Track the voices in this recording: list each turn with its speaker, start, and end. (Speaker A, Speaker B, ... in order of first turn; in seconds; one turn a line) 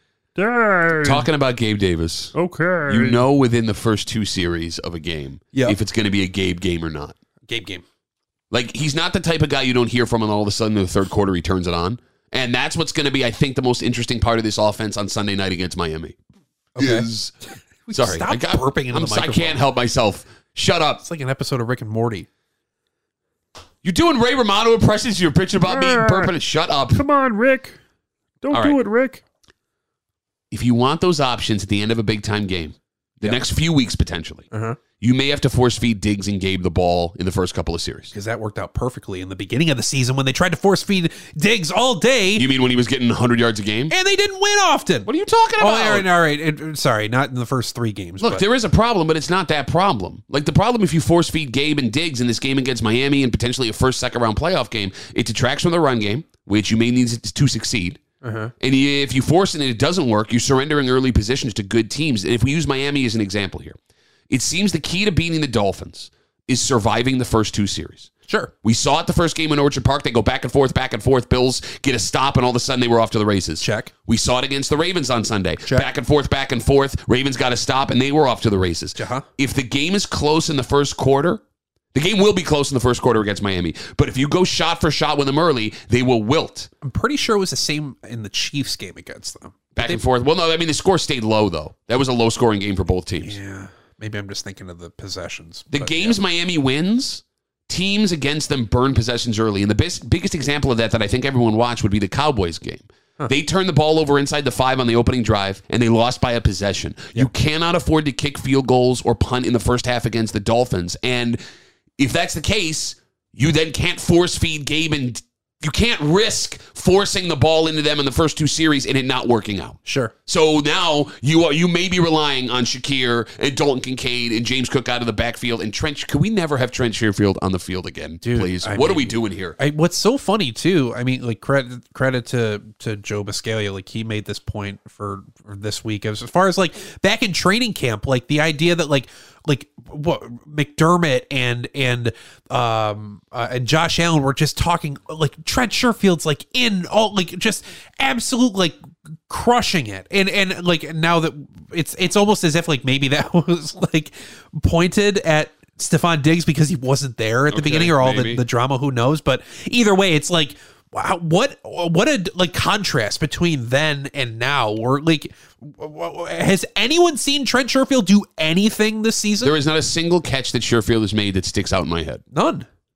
Speaker A: 0.3-1.3
Speaker B: 1.0-2.3
Speaker A: 2.3-3.2
Speaker B: 2.9-7.2
Speaker C: 5.5-5.8
Speaker C: 7.5-7.8
Speaker B: 8.5-16.1
Speaker C: 16.8-17.1
Speaker B: 16.8-17.3
Speaker C: 17.9-19.6
Speaker B: 17.9-21.0
Speaker C: 21.0-22.3
Speaker B: 23.8-27.0
Speaker A: 25.6-26.3
Speaker A: 26.9-27.8
Speaker A: 28.4-29.2
Speaker B: 28.5-28.8
Speaker B: 30.5-34.5
Speaker C: 34.5-34.8
Speaker B: 35.0-38.1
Speaker C: 38.1-42.5
Speaker B: 42.4-43.9
Speaker C: 43.9-45.1
Speaker B: 45.0-46.0
Speaker C: 45.6-48.4
Speaker B: 48.2-58.0
Speaker C: 58.2-58.5
Speaker B: 58.6-63.8
Speaker B: 64.3-68.1
Speaker B: 68.6-81.4
Speaker C: 73.6-73.9
Speaker C: 79.0-79.2
Speaker B: 81.9-86.7
Speaker C: 86.8-90.0
Speaker B: 89.8-93.4
Speaker C: 93.2-96.2
Speaker B: 95.7-111.4
Speaker B: 112.0-129.6
Speaker C: 119.8-120.1
Speaker C: 128.2-148.8
Speaker C: 149.3-169.6
Speaker B: 157.5-158.4
Speaker B: 169.4-172.2
Speaker C: 172.3-172.7